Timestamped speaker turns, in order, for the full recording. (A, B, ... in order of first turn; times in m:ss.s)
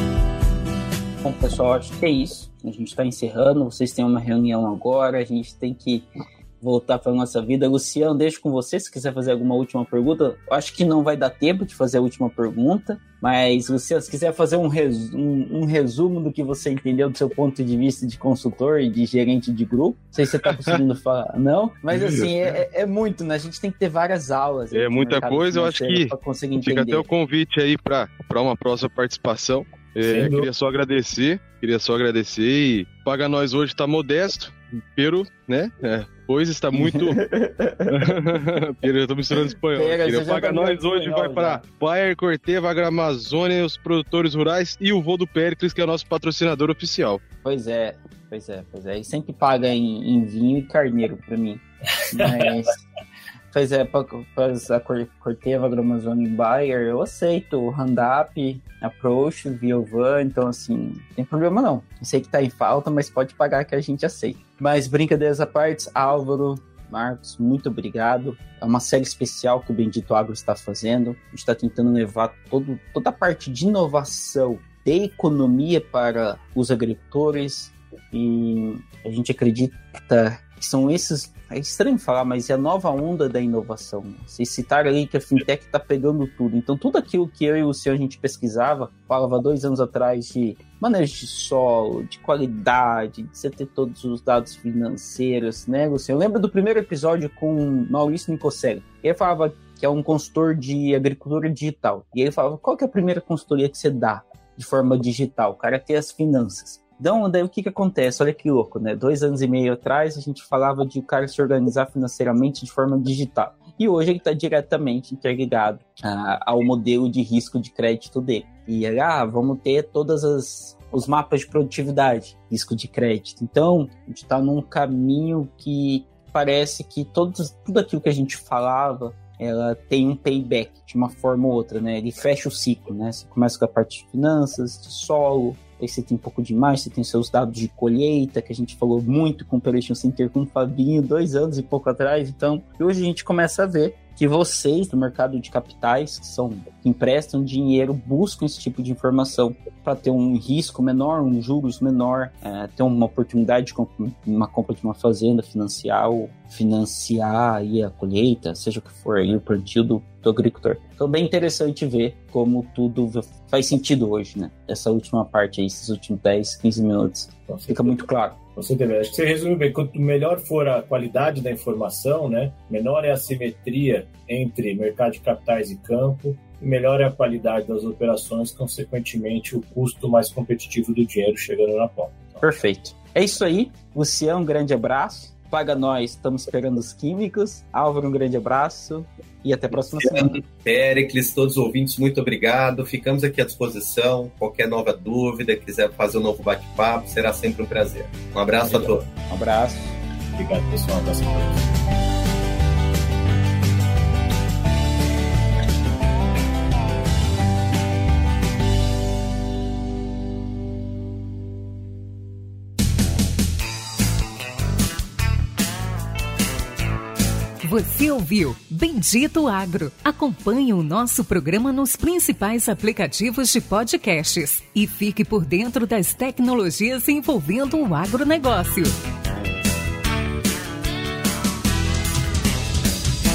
0:01.2-0:06.1 A
0:06.6-0:27.1 A
0:21.9-0:22.4 B
0:24.7-0:37.2 B
0:30.0-0:30.5 C
0:36.7-0:38.2 A
0:37.9-0:47.2 B
0:39.7-0:41.6 A
0:47.4-0:52.8 A
0:52.2-0:52.5 C
0:53.5-2:48.4 A
2:47.5-2:48.0 C
2:48.6-3:02.4 C
3:02.4-3:10.4 A
3:10.0-3:19.0 D
3:18.7-3:20.0 A
3:20.3-3:21.8 C
3:37.6-3:48.9 E